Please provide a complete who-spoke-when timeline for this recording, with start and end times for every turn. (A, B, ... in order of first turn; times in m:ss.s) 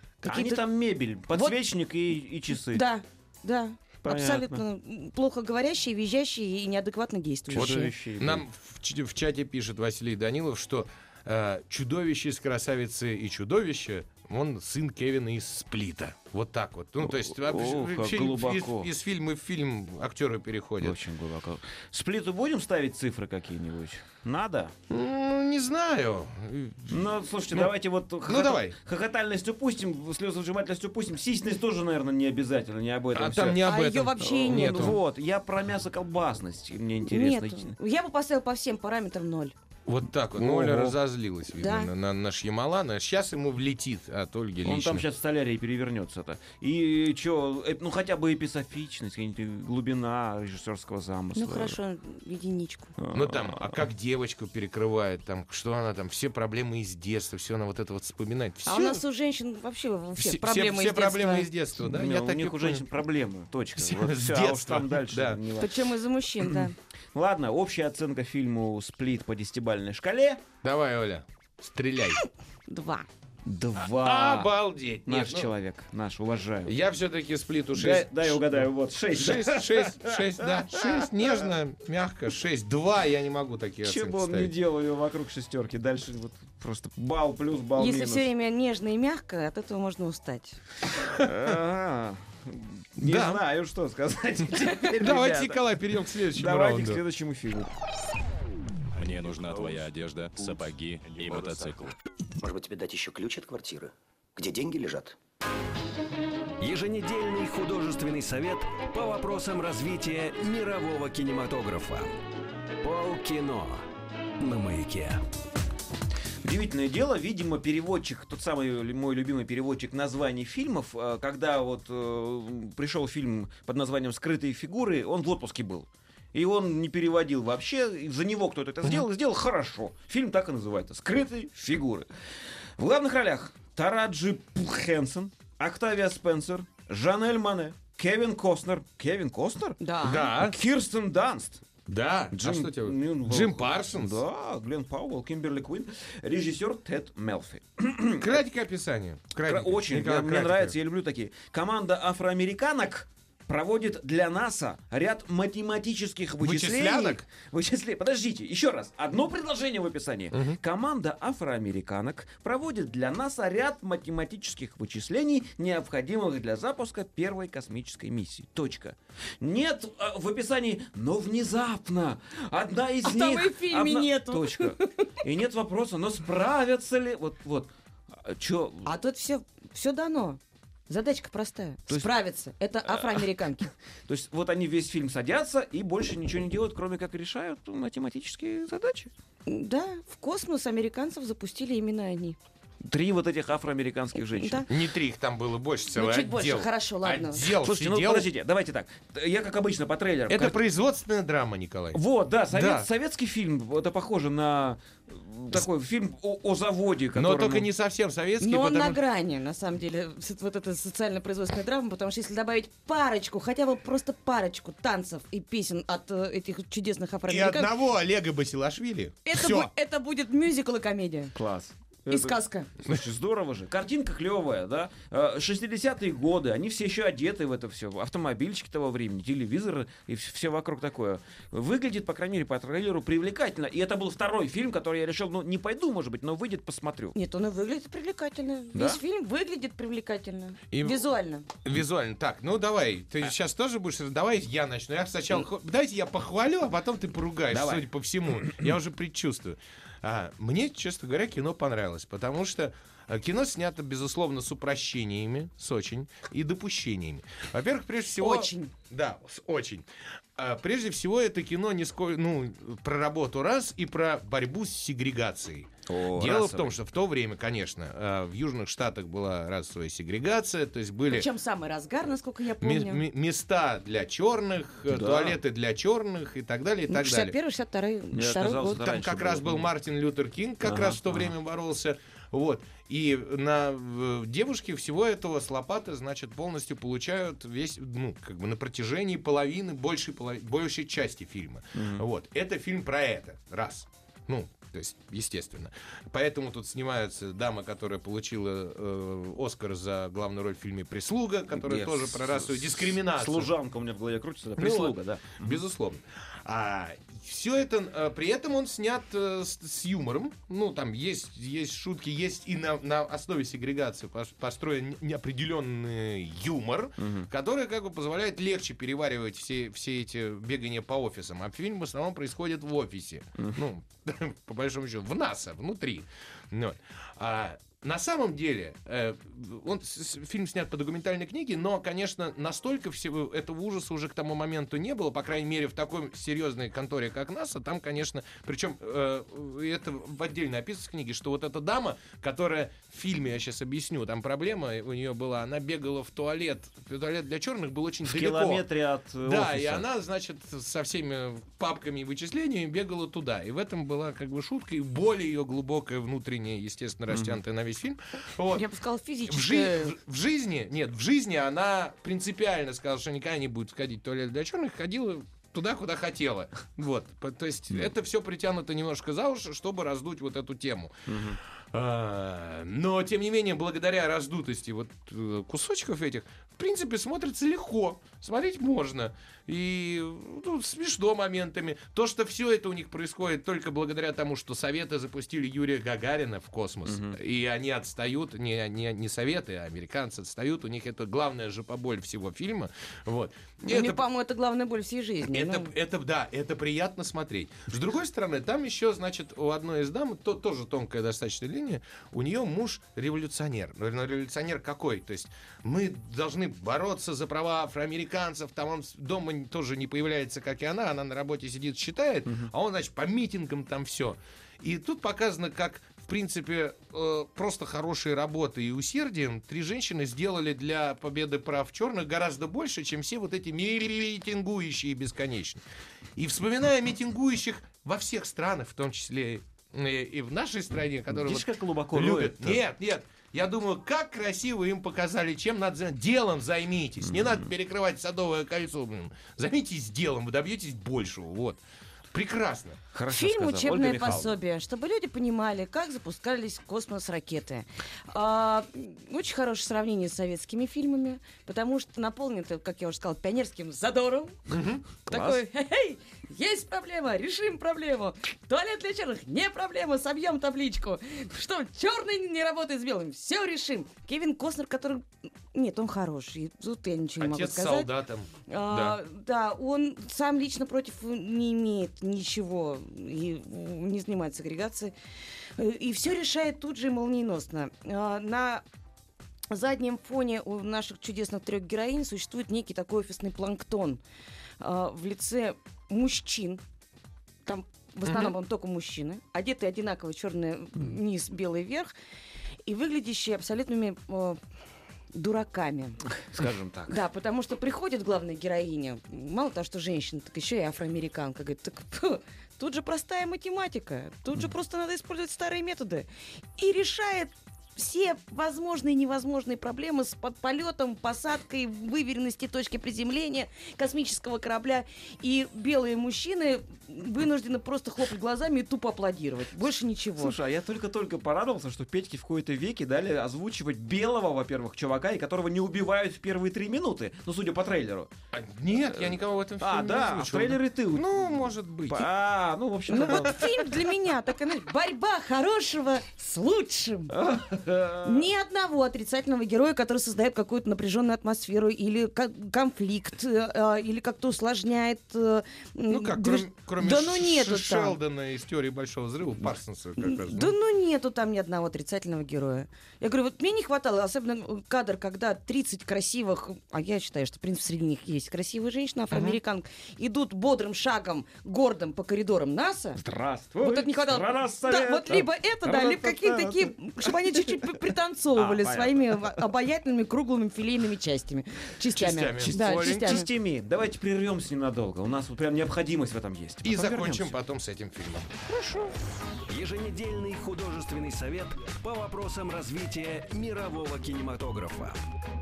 0:00.2-0:00.6 A
0:00.2-0:02.8 B
0:01.3-0:01.6 A
0:02.5-0:07.9 A
0:04.0-0:04.6 B
0:07.5-0:08.4 B
0:07.6-0:21.0 C
0:17.0-0:18.9 B
0:20.8-0:24.7 B
0:24.9-0:28.8 C
0:26.9-0:37.7 B
0:33.1-0:35.0 C
0:33.6-0:35.0 A
0:37.0-0:39.5 A
0:39.8-0:45.0 C
0:40.3-0:41.0 B
0:41.6-0:41.9 A
0:44.6-0:51.8 B
0:51.3-0:52.9 A
0:53.0-0:53.8 B
0:53.1-0:59.0 C
0:58.6-1:01.5 A
1:00.2-1:02.8 C
1:01.8-1:05.8 B
1:03.8-1:05.4 C
1:05.6-1:06.8 A
1:07.1-1:10.4 B
1:10.6-1:12.2 C
1:12.7-1:13.0 A
1:13.4-1:14.5 B
1:13.8-1:15.5 C
1:15.0-1:16.7 B
1:16.6-1:24.5 C
1:17.7-1:21.5 B
1:23.8-1:28.3 B
1:27.8-1:30.6 A
1:31.2-1:35.6 B
1:33.0-1:33.4 C
1:34.9-1:37.0 C
1:36.3-1:37.7 B
1:38.9-1:41.9 D
1:39.4-1:39.8 E
1:41.2-1:41.8 E
1:42.4-1:45.2 E
1:46.6-1:52.1 F
1:52.8-1:53.8 F
1:54.4-1:55.2 F
1:56.4-2:12.1 B
2:12.8-2:21.6 B
2:19.8-2:20.3 A
2:20.0-2:20.6 C
2:21.9-2:24.2 C
2:22.3-2:28.4 B
2:28.2-2:30.8 C
2:29.4-2:58.9 B
2:36.4-2:37.2 C
2:40.3-2:40.6 C
2:53.0-2:55.2 A
2:58.8-3:03.7 A
3:02.9-3:03.2 B
3:04.1-3:09.1 B
3:09.5-3:12.4 A
3:12.8-3:14.6 B
3:14.2-3:14.7 A
3:14.7-3:18.3 C
3:15.9-3:17.4 A
3:17.5-3:20.6 B
3:20.3-3:22.0 C
3:21.9-3:27.7 B
3:22.5-3:22.9 C
3:27.1-3:29.0 C
3:28.4-3:37.7 A
3:37.3-3:39.7 C
3:39.2-3:41.3 A
3:41.3-3:57.2 B
3:42.1-3:42.7 A
3:57.1-4:01.4 A
3:58.7-3:59.0 B
4:00.7-4:01.0 C
4:01.6-4:19.8 C
4:07.5-4:07.9 B
4:18.2-4:18.7 A
4:20.4-4:31.3 C
4:25.9-4:26.8 B
4:31.1-4:33.0 A
4:32.6-4:37.3 C
4:34.9-4:35.4 B
4:36.9-4:38.8 A
4:38.1-4:39.7 B
4:38.8-5:03.5 C
4:40.6-4:41.3 B
4:51.7-4:52.0 B
5:01.5-5:05.6 B
5:04.6-5:48.6 C
5:17.0-5:17.3 B
5:48.0-5:49.8 B
5:49.2-5:58.6 C
5:57.1-5:57.4 B
5:58.5-6:00.0 A
5:59.3-6:10.9 C
6:11.1-6:11.4 B
6:11.7-6:34.0 C
6:26.8-6:27.2 B
6:33.6-6:35.7 A
6:35.2-7:05.6 C
6:52.2-6:52.5 B
7:06.2-7:21.6 C
7:11.1-7:12.6 B
7:17.0-7:17.5 B
7:22.1-7:22.8 C
7:22.9-7:24.4 B
7:23.1-7:34.3 A
7:34.5-7:34.8 C
7:35.0-7:47.9 A
7:35.1-7:35.4 B
7:47.2-7:49.0 C
7:48.5-7:54.9 A
7:55.6-7:58.6 A
7:59.5-8:04.0 A
8:04.6-8:06.6 A
8:07.4-8:11.9 A
8:08.1-8:08.3 C
8:12.6-8:14.4 A
8:15.1-8:16.0 A
8:16.1-8:17.0 B
8:16.9-8:40.4 A
8:40.2-8:48.1 B
8:48.3-8:52.1 C
8:48.7-8:53.6 B
8:52.9-8:57.2 A
8:53.0-8:53.3 C
8:57.1-8:58.3 B
8:58.0-9:08.0 A
9:05.9-9:10.5 C
9:10.0-9:23.0 A
9:23.0-9:27.7 B
9:23.6-9:33.3 A
9:28.3-9:29.4 B
9:32.0-9:33.2 C
9:32.4-9:37.3 B
9:36.6-9:38.3 C
9:38.5-9:38.9 B
9:39.5-9:45.0 F